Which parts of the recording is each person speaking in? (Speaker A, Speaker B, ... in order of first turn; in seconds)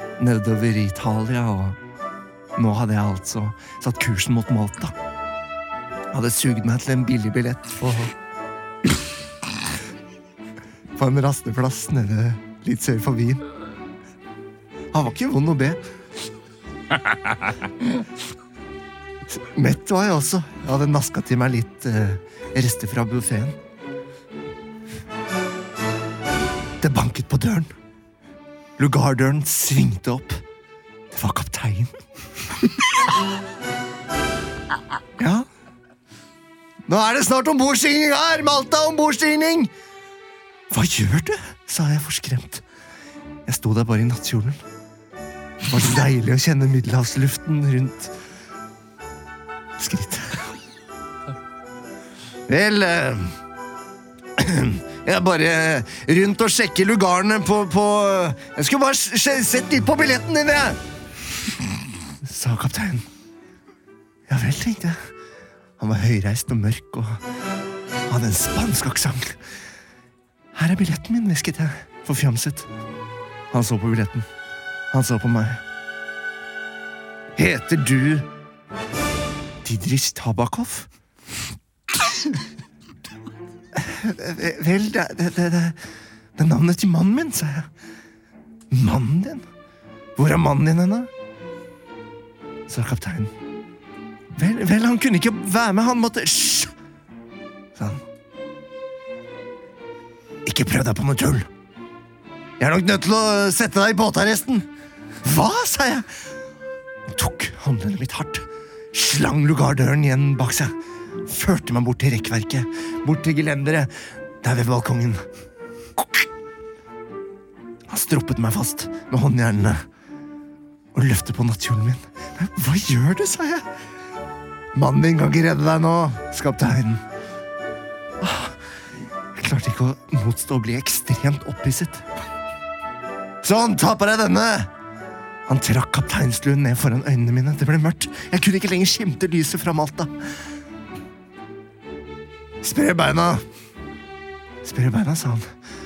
Speaker A: 0.2-1.8, 2.6-4.9, 6.1-8.1, 10.9-13.4, 14.9-15.8, 19.3-23.6, 26.8-27.7, 28.8-30.4, 31.1-31.9, 35.2-35.5, 36.9-39.7, 40.7-42.6, 43.5-44.6, 45.7-48.1, 49.8-50.5, 52.5-53.3, 54.4-60.8, 62.2-63.0, 64.3-65.0, 65.8-67.2, 68.1-69.4, 70.5-72.7, 73.5-74.2, 74.9-75.6, 77.4-78.3, 79.6-80.9, 83.7-85.8, 86.4-87.7, 88.7-89.4, 90.2-91.1, 92.7-93.3, 94.3-96.7, 97.8-98.0, 100.5-101.5, 102.6-104.7, 105.2-106.1, 107.1-110.7, 111.2-113.9, 114.4-115.2, 116.0-116.2, 117.9-119.8, 120.9-123.7, 124.7-127.0, 128.2-128.6, 129.3-132.0, 133.4-134.7, 135.5-140.1, 142.6-143.4, 144.6-145.5